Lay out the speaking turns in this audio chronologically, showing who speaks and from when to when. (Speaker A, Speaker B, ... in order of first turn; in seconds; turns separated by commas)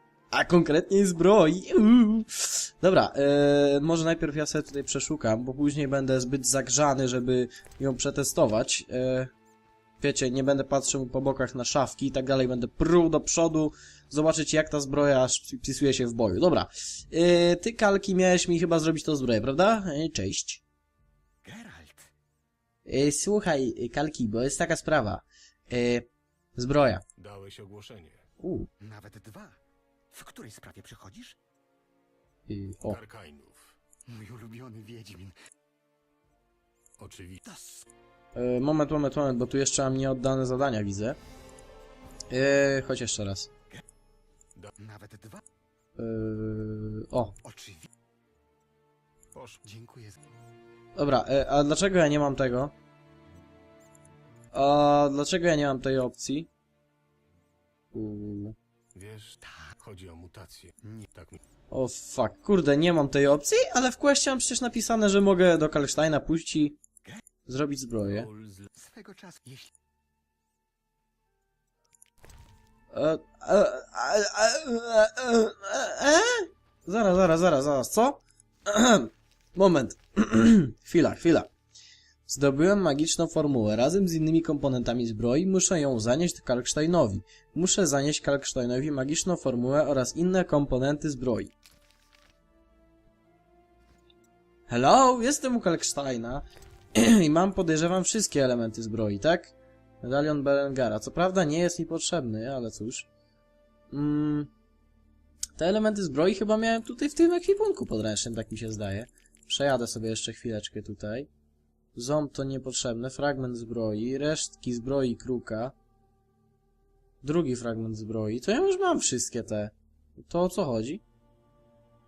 Speaker A: 0.3-9.3, Speaker A: 10.0-20.6, Speaker B: 21.4-22.1, Speaker A: 22.9-27.0, Speaker C: 27.2-28.2, Speaker A: 28.4-28.7, Speaker B: 28.8-29.6, Speaker B: 30.1-31.4, Speaker A: 32.5-33.0, Speaker C: 32.8-33.8, Speaker B: 34.0-35.3, Speaker C: 37.0-37.4, Speaker B: 37.4-37.8, Speaker A: 38.3-41.2, Speaker A: 42.3-43.5, Speaker B: 44.8-45.4, Speaker A: 46.0-47.3, Speaker B: 47.4-47.9, Speaker C: 49.3-49.6, Speaker B: 49.6-50.2, Speaker A: 51.0-52.7, Speaker A: 54.5-56.5, Speaker A: 57.9-58.6, Speaker C: 59.0-61.4, Speaker A: 61.7-66.8, Speaker A: 67.5-68.3, Speaker B: 68.4-69.7, Speaker A: 72.9-81.5, Speaker A: 82.3-91.5, Speaker A: 94.7-96.4, Speaker A: 97.0-103.1, Speaker A: 103.9-104.5, Speaker A: 105.6-111.3, Speaker A: 112.0-115.7, Speaker A: 117.2-121.0